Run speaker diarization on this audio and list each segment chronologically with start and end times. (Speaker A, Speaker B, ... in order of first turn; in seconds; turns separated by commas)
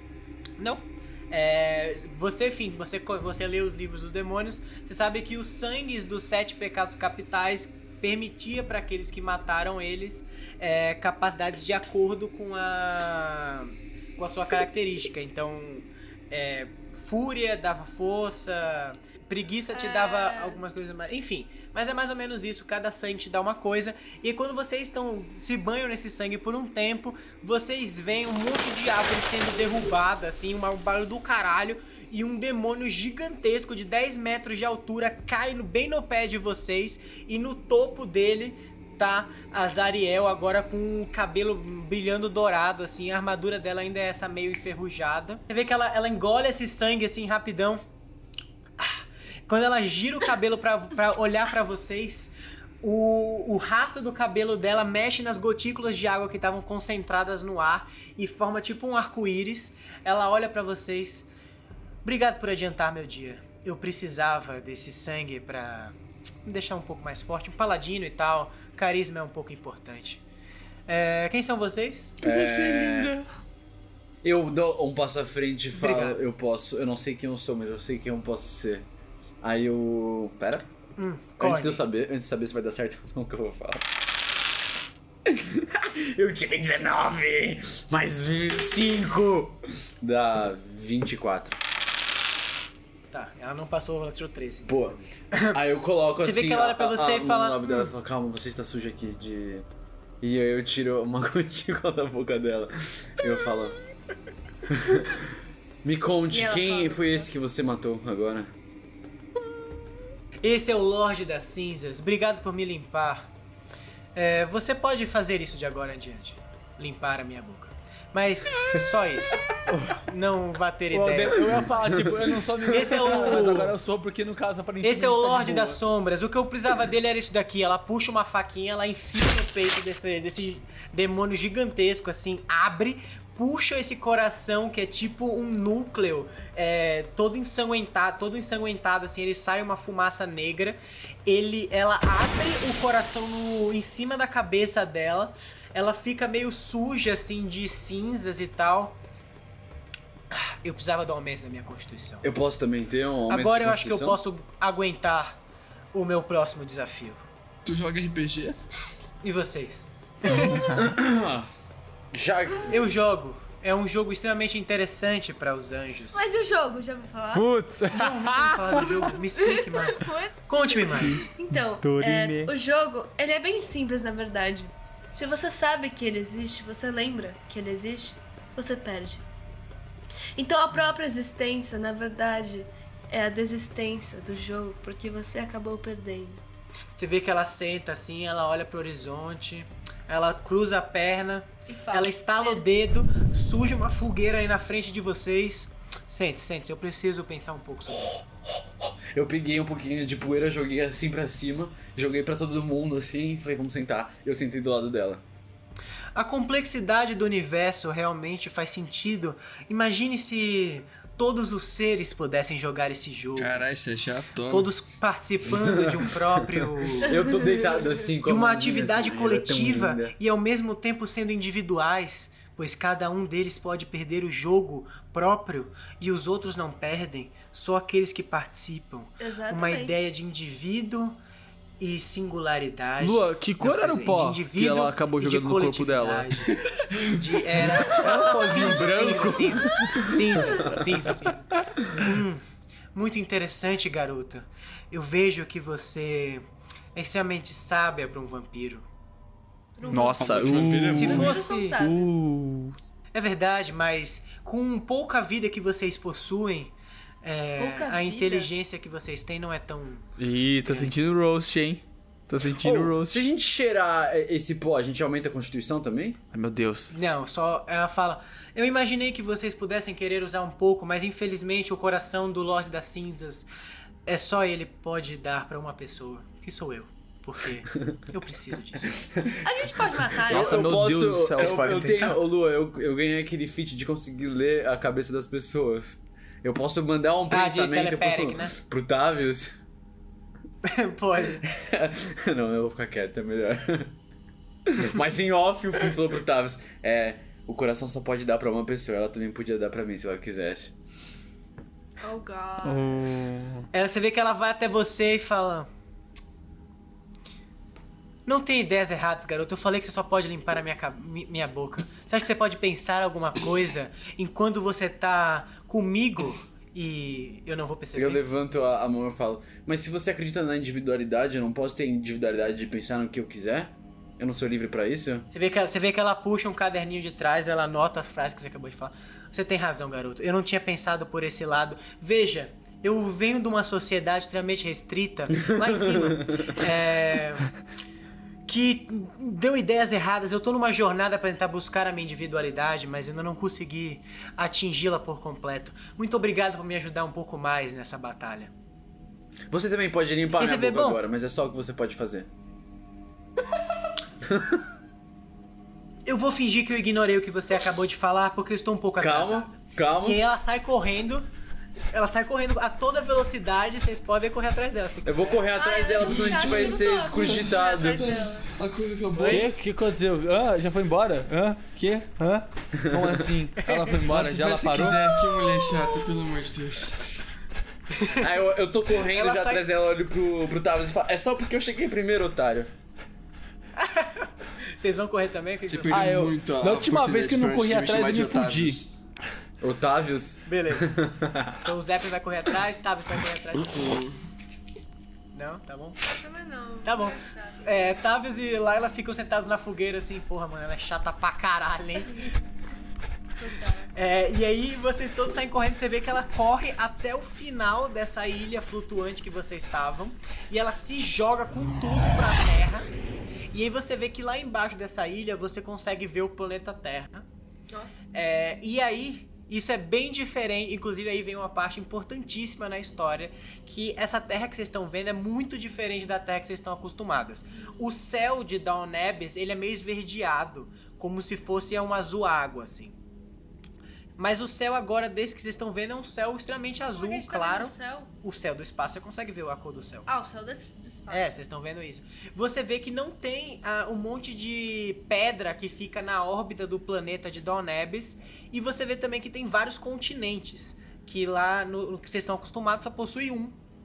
Speaker A: 0.6-47.8, Speaker B: 19.7-20.6, Speaker A: 48.8-61.3, Speaker A: 62.0-70.2, Speaker A: 70.9-72.2, Speaker C: 72.2-73.2, Speaker D: 72.2-73.2, Speaker C: 74.2-78.9, Speaker A: 75.7-76.2, Speaker C: 79.4-80.7, Speaker A: 81.0-81.8, Speaker C: 81.4-83.9, Speaker C: 85.2-91.6, Speaker A: 93.1-95.6, Speaker C: 94.7-99.7, Speaker A: 96.2-97.8, Speaker C: 100.2-103.8, Speaker C: 104.7-108.5, Speaker B: 106.3-107.3, Speaker A: 110.4-113.3, Speaker A: 114.2-119.5, Speaker A: 120.1-122.1, Speaker D: 120.9-125.8, Speaker C: 122.0-123.4, Speaker A: 122.7-123.8, Speaker A: 124.8-149.0, Speaker A: 150.3-152.3, Speaker C: 152.2-154.2, Speaker A: 153.3-155.4, Speaker A: 155.9-157.2, Speaker E: 157.7-158.6, Speaker A: 159.2-160.7, Speaker B: 160.3-160.7, Speaker C: 160.4-161.5, Speaker D: 160.4-160.8, Speaker C: 162.1-162.9, Speaker A: 162.7-166.2, Speaker B: 166.1-167.5, Speaker D: 167.3-169.1, Speaker A: 167.9-171.3, Speaker B: 169.4-179.2, Speaker D: 171.1-172.5, Speaker B: 180.4-186.4, Speaker A: 187.0-198.2, Speaker B: 191.7-192.7, Speaker C: 197.9-205.2, Speaker A: 206.2-213.6, Speaker E: 213.4-214.7, Speaker A: 214.5-217.2, Speaker C: 215.6-220.1, Speaker A: 218.2-231.2, Speaker B: 229.2-230.0, Speaker A: 231.8-242.4, Speaker D: 233.0-236.3, Speaker D: 237.8-241.2, Speaker B: 239.6-240.6, Speaker A: 242.9-246.4, Speaker A: 246.9-248.9, Speaker B: 249.8-252.1, Speaker D: 249.9-252.8, Speaker E: 250.2-251.4, Speaker A: 250.9-251.8, Speaker A: 253.1-260.1, Speaker B: 257.6-258.5, Speaker D: 260.2-263.2, Speaker A: 260.6-260.9, Speaker C: 262.6-266.2, Speaker D: 266.3-267.0, Speaker A: 266.9-273.5, Speaker A: 274.1-279.1, Speaker C: 279.0-279.4, Speaker B: 279.4-280.6, Speaker D: 280.3-282.2, Speaker C: 280.3-289.6, Speaker A: 281.4-281.9, Speaker A: 287.3-288.5, Speaker A: 290.6-291.4, Speaker C: 291.4-293.9, Speaker C: 294.7-300.8, Speaker B: 302.0-303.1, Speaker D: 302.6-303.7, Speaker A: 303.7-305.7, Speaker A: 308.3-318.2, Speaker C: 317.9-325.3, Speaker A: 325.3-337.5, Speaker C: 335.4-336.6, Speaker A: 338.5-348.5, Speaker C: 349.5-352.3, Speaker A: 350.4-351.0, Speaker C: 354.2-354.6, Speaker A: 356.1-361.3, Speaker C: 359.0-360.2, Speaker A: 361.9-365.5, Speaker C: 365.1-368.2, Speaker B: 365.5-368.5, Speaker E: 366.0-369.5, Speaker A: 369.2-369.5, Speaker D: 369.3-375.0, Speaker C: 372.8-373.3, Speaker A: 373.6-373.9, Speaker E: 374.1-377.1, Speaker A: 377.9-378.3, Speaker C: 378.2-382.7, Speaker A: 379.0-379.6, Speaker A: 383.8-386.1, Speaker E: 385.7-389.0, Speaker D: 385.9-388.8, Speaker C: 389.6-391.6, Speaker A: 390.5-390.9, Speaker A: 391.6-394.0, Speaker E: 393.6-394.2, Speaker A: 395.3-396.0, Speaker B: 396.0-397.9, Speaker A: 396.9-402.4, Speaker B: 403.4-403.9, Speaker A: 403.9-412.9, Speaker A: 413.5-417.2, Speaker B: 417.7-418.0, Speaker A: 418.1-433.0, Speaker A: 434.2-440.1, Speaker B: 436.8-438.1, Speaker B: 440.1-441.4, Speaker A: 441.1-453.6